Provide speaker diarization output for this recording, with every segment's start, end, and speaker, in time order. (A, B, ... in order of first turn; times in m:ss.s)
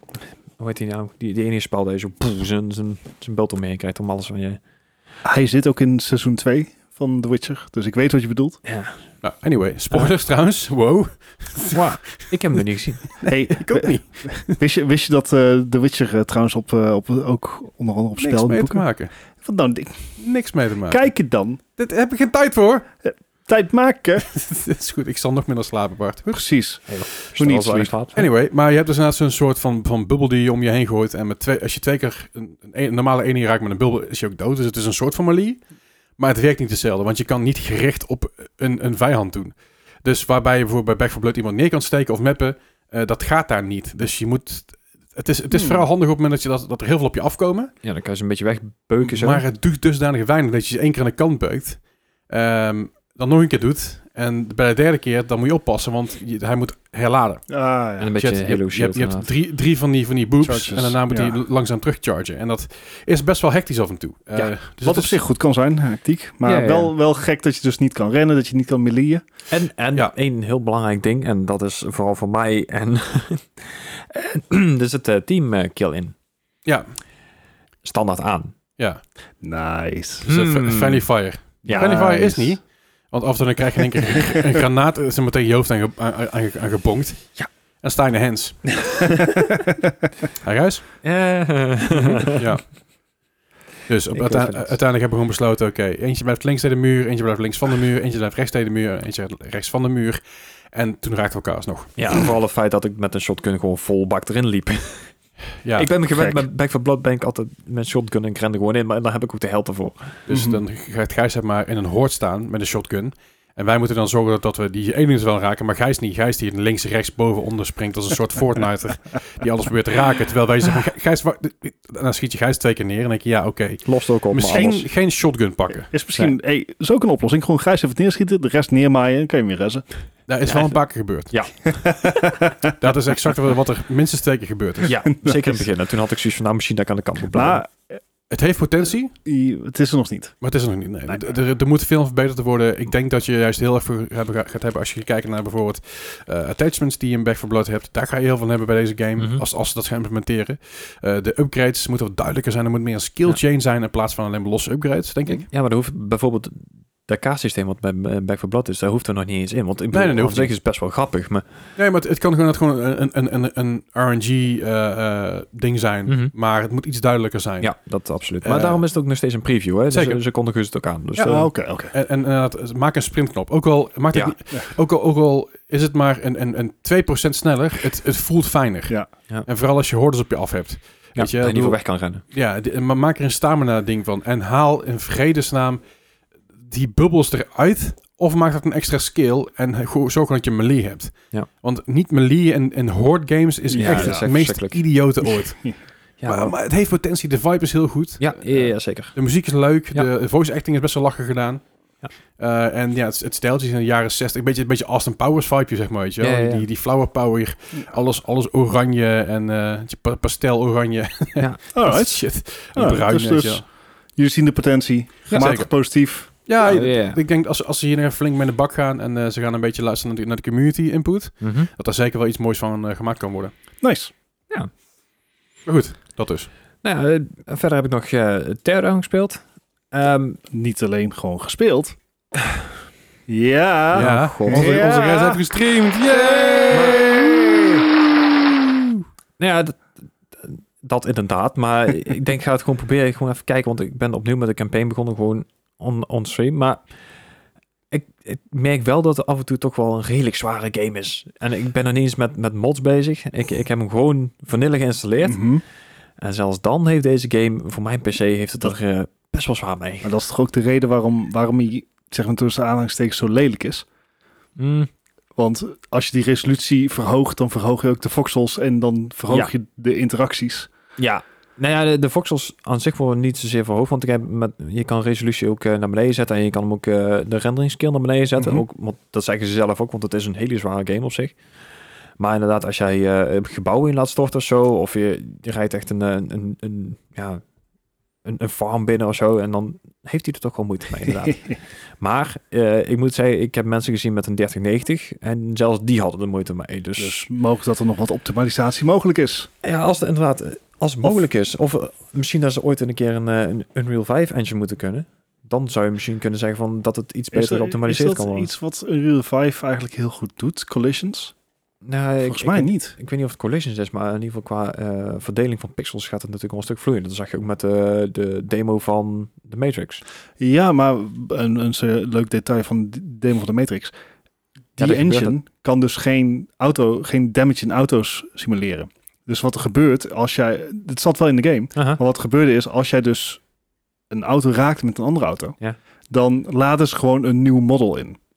0:00.6-0:04.6 A
0:05.2-0:08.6 B
0:08.6-0:08.9 A
0:09.2-0:12.6 C
0:11.7-0:13.2 A
0:13.2-0:14.6 C
0:13.2-0:18.8 B
0:18.2-0:19.1 C
0:19.4-0:20.2 B
0:20.2-0:21.1 C
0:20.9-0:21.6 B
0:21.8-0:22.9 C
0:23.0-0:24.2 B
0:24.2-0:26.4 C
0:26.3-0:27.9 B
0:26.9-0:28.3 A
0:28.2-0:35.6 C
0:36.2-0:47.7 C
0:45.5-0:45.8 B
0:47.8-0:49.4 A
0:49.0-0:57.5 C
0:57.5-0:58.1 B
0:58.0-0:59.3 A
0:58.2-1:05.2 C
1:00.4-1:01.4 B
1:04.8-1:09.2 B
1:06.4-1:06.9 A
1:09.5-1:16.1 A
1:17.8-1:18.5 A
1:19.4-1:20.3 B
1:20.2-1:27.3 C
1:20.3-1:21.1 A
1:21.6-1:22.5 A
1:21.7-1:22.3 B
1:27.8-1:28.8 C
1:28.9-1:29.9 B
1:29.1-1:29.5 A
1:30.4-1:30.8 C
1:31.0-1:32.4 A
1:32.3-1:32.6 C
1:33.9-1:42.0 C
1:34.1-1:34.7 A
1:42.0-1:45.1 A
1:45.6-1:45.9 C
1:45.8-1:50.2 A
1:46.1-1:46.4 B
1:50.3-2:05.9 C
1:50.3-1:50.6 B
2:03.9-2:04.8 A
2:04.5-2:04.8 B
2:05.9-2:09.8 B
2:10.3-2:11.3 C
2:10.4-2:11.8 A
2:11.7-2:12.7 B
2:12.8-2:14.9 C
2:14.9-2:17.6 A
2:15.0-2:15.6 B
2:17.3-2:18.0 B
2:18.3-2:19.1 C
2:19.2-2:20.3 B
2:20.4-2:35.5 C
2:29.2-2:29.4 A
2:35.5-2:41.4 A
2:39.9-2:40.5 C
2:41.8-2:47.7 C
2:46.1-2:46.3 A
2:47.6-2:51.5 A
2:48.4-2:48.8 C
2:49.9-2:50.2 C
2:51.2-2:51.9 B
2:51.9-2:58.9 C
2:59.5-3:05.8 C
3:01.2-3:02.2 A
3:06.6-3:15.7 C
3:13.7-3:14.3 B
3:13.8-3:14.8 A
3:16.2-3:16.6 A
3:16.3-3:21.6 C
3:18.2-3:19.2 A
3:22.4-3:33.6 C
3:26.2-3:26.7 A
3:31.7-3:36.3 B
3:35.3-3:35.6 A
3:35.3-3:35.7 C
3:36.5-3:43.5 C
3:36.6-3:37.2 A
3:41.4-3:41.7 A
3:43.8-3:44.1 B
3:45.7-3:46.5 C
3:46.8-3:49.4 A
3:49.9-3:50.4 A
3:50.5-3:52.0 B
3:53.3-3:55.4 B
3:53.9-3:54.8 A
3:53.9-3:57.2 C
3:56.7-3:57.1 A
3:57.2-3:57.7 B
3:59.4-4:06.8 A
4:07.9-4:15.4 A
4:15.2-4:15.6 B
4:16.2-4:20.1 A
4:20.0-4:23.9 B
4:24.6-4:24.9 A
4:25.4-4:30.7 B
4:31.0-4:41.4 A
4:38.4-4:38.6 B
4:42.2-4:47.4 A
4:48.2-4:57.2 A
4:57.0-4:59.5 B
4:59.6-5:08.5 A
5:07.3-5:11.3 B
5:11.8-5:20.0 A
5:12.2-5:13.0 B
5:20.4-5:23.9 B
5:24.8-5:33.4 B
5:24.8-5:25.4 A
5:31.8-5:32.0 A
5:34.1-5:35.6 B
5:36.1-5:38.2 B